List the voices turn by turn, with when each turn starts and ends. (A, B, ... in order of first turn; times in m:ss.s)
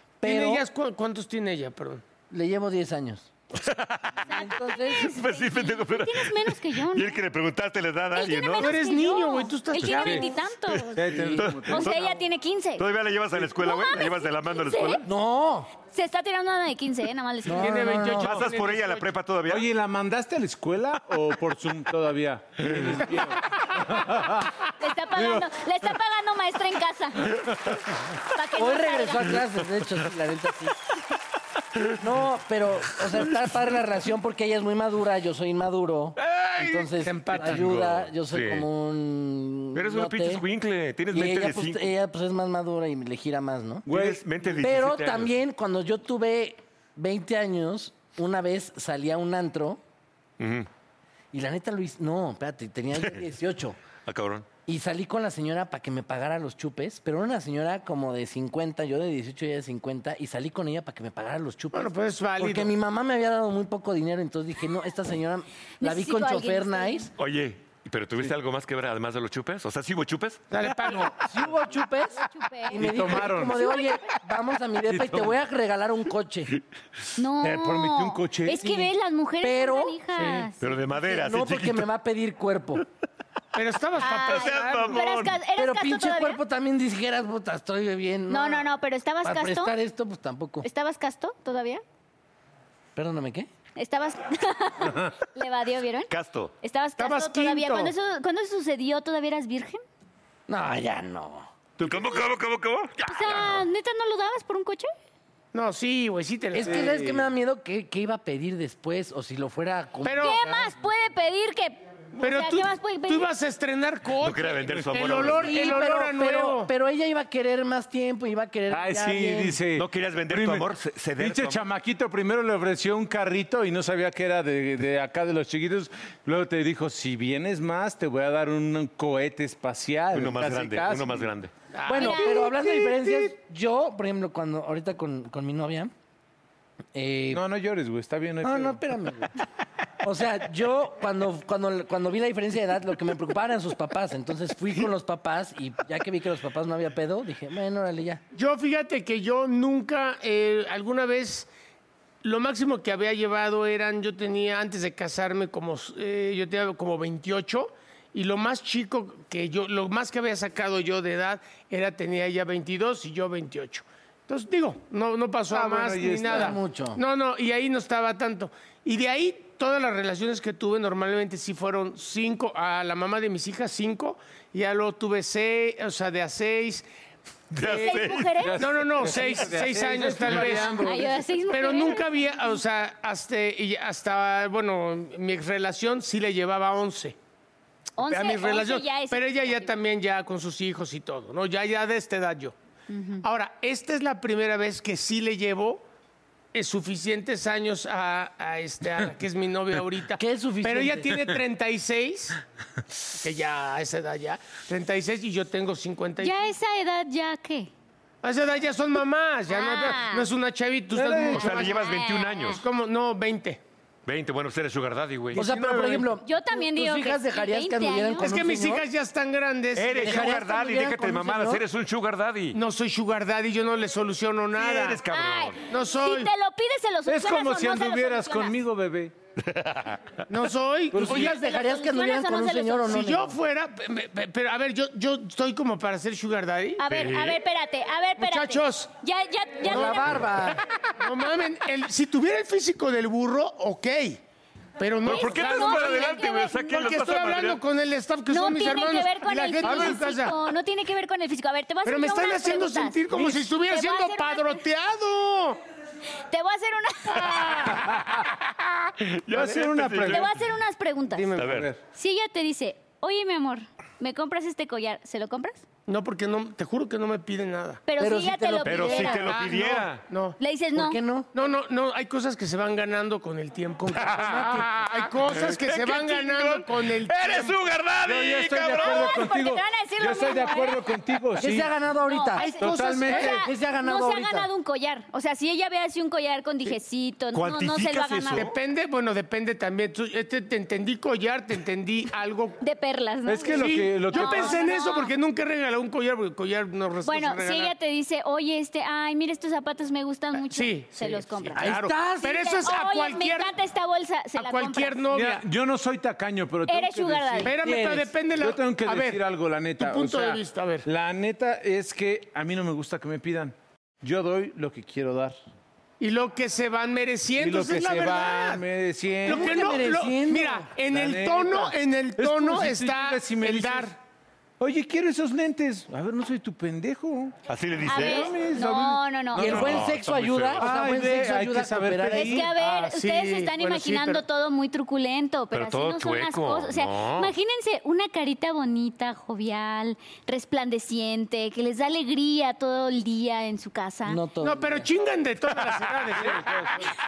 0:00.2-0:00.6 A
0:00.2-0:02.0 B
0:02.3-0:03.3 A
0:03.5-0:04.2 C
0:04.2-0:07.2 D
0:04.3-0:05.1 A
0:05.0-0:08.9 C
0:08.1-0:11.1 D
0:08.6-0:10.3 B
0:11.0-0:11.9 E
0:11.4-0:12.2 C
0:11.7-0:12.8 D
0:12.8-0:15.1 C
0:13.6-0:15.0 D
0:15.0-0:15.7 A
0:15.9-0:18.1 D
0:17.4-0:18.3 A
0:17.5-0:19.1 B
0:18.2-0:19.7 C
0:19.5-0:24.6 E
0:24.8-0:27.5 D
0:25.2-0:25.4 E
0:28.3-0:29.4 D
0:28.6-0:30.8 A
0:31.9-0:40.4 A
0:37.0-0:37.7 B
0:37.4-0:38.7 C
0:39.7-0:41.9 C
0:41.1-0:43.8 A
0:43.8-0:44.5 E
0:43.9-0:45.3 C
0:44.6-0:49.8 A
0:50.4-0:50.7 C
0:51.3-0:53.8 A
0:54.0-0:54.5 C
0:54.7-1:07.1 A
1:01.7-1:02.7 B
1:05.8-1:07.1 D
1:07.2-1:10.4 C
1:10.5-1:11.2 B
1:11.2-1:16.6 A
1:12.1-1:14.0 D
1:12.7-1:13.6 E
1:14.9-1:15.3 E
1:17.2-1:20.8 D
1:17.4-1:18.9 E
1:19.4-1:20.0 A
1:20.1-1:20.5 B
1:20.6-1:21.9 C
1:20.9-1:22.8 A
1:23.5-1:25.0 B
1:24.0-1:26.4 D
1:24.2-1:25.4 C
1:25.6-1:28.7 A
1:28.3-1:29.7 D
1:29.2-1:30.6 A
1:30.6-1:31.8 D
1:32.9-1:33.5 A
1:33.8-1:36.1 D
1:36.1-1:36.5 C
1:36.6-1:39.8 D
1:37.0-1:37.9 B
1:40.5-1:41.5 A
1:41.8-1:43.6 C
1:43.0-1:44.9 D
1:45.5-1:46.9 B
1:46.5-1:50.7 A
1:46.6-1:47.2 E
1:50.0-1:50.4 B
1:50.2-1:53.3 D
1:52.2-1:56.7 B
1:54.2-1:55.7 C
1:55.4-1:59.6 A
1:58.7-2:11.3 E
1:59.8-2:01.6 C
2:10.1-2:11.5 C
2:11.7-2:13.2 B
2:11.9-2:15.9 A
2:11.9-2:12.5 D
2:16.9-2:17.4 A
2:17.3-2:18.8 E
2:18.4-2:19.3 A
2:20.0-2:28.2 A
2:28.3-2:31.5 B
2:32.2-2:56.8 B
2:45.5-2:46.5 E
2:46.2-2:47.0 A
2:57.5-2:58.5 C
2:57.6-2:58.6 D
2:57.6-3:01.2 E
2:58.6-3:00.9 B
3:00.4-3:02.6 D
3:01.4-3:07.2 B
3:08.0-3:09.7 D
3:08.0-3:12.5 B
3:12.9-3:13.2 D
3:13.2-3:15.8 B
3:16.5-3:22.4 B
3:20.1-3:21.2 A
3:23.1-3:26.4 B
3:26.2-3:27.7 D
3:28.2-3:31.8 B
3:29.5-3:30.3 D
3:30.9-3:31.4 E
3:31.3-3:32.6 D
3:31.3-3:32.6 C
3:32.5-3:33.6 B
3:34.0-3:35.4 C
3:35.3-3:36.1 B
3:35.3-3:38.8 A
3:36.2-3:38.3 D
3:38.2-3:40.4 B
3:39.7-3:42.6 C
3:40.0-3:41.6 A
3:42.5-3:45.0 B
3:44.5-3:45.6 C
3:45.1-3:48.5 D
3:45.7-3:46.3 B
3:47.0-3:49.1 E
3:49.4-3:50.2 C
3:50.3-3:51.4 B
3:50.9-3:51.2 E
3:50.9-3:53.4 A
3:51.1-3:53.1 D
3:52.9-3:56.8 B
3:56.8-4:00.2 D
3:56.9-3:57.4 C
3:58.2-3:58.9 B
3:59.6-4:04.2 B
3:59.7-4:00.6 A
4:04.8-4:10.4 B
4:05.0-4:06.6 D
4:05.0-4:07.6 C
4:08.3-4:14.6 D
4:11.8-4:15.6 B
4:16.3-4:17.8 D
4:19.0-4:20.3 C
4:19.3-4:20.3 E
4:20.1-4:21.3 D
4:21.2-4:21.6 B
4:21.4-4:21.7 C
4:21.4-4:21.8 E
4:21.9-4:25.6 D
4:25.9-4:27.8 B
4:27.8-4:29.3 D
4:28.0-4:29.1 A
4:28.6-4:30.0 C
4:28.9-4:30.4 B
4:30.4-4:31.0 D
4:30.7-4:31.3 A
4:31.3-4:37.6 B
4:34.2-4:34.7 A
4:34.2-4:34.6 C
4:35.2-4:39.1 C
4:38.0-4:41.7 E
4:38.7-4:40.8 D
4:41.4-4:42.5 A
4:42.1-4:48.5 D
4:42.4-4:43.3 B
4:42.6-4:43.4 E
4:43.3-4:44.5 A
4:47.3-4:48.6 C
4:48.3-4:52.6 B
4:52.6-4:55.1 D
4:53.2-4:54.6 E
4:53.5-4:57.7 B
4:57.0-5:05.0 D
5:00.4-5:03.5 B
5:01.6-5:02.4 A
5:04.4-5:05.4 B
5:05.1-5:07.7 E
5:06.7-5:07.5 D
5:07.4-5:09.2 B
5:07.6-5:08.1 A
5:08.4-5:15.4 E
5:09.8-5:10.9 B
5:16.0-5:18.6 B
5:17.4-5:19.7 E
5:19.2-5:23.9 B
5:19.3-5:20.7 A
5:20.9-5:23.9 E
5:24.6-5:27.3 E
5:27.5-5:28.4 C
5:27.8-5:29.7 D
5:27.9-5:30.0 E
5:29.4-5:32.4 A
5:29.4-5:30.6 C
5:30.6-5:32.5 E
5:32.1-5:44.2 D
5:32.4-5:34.2 B
5:35.5-5:37.3 C
5:44.0-5:44.9 A
5:44.4-5:46.8 B
5:46.4-5:46.7 E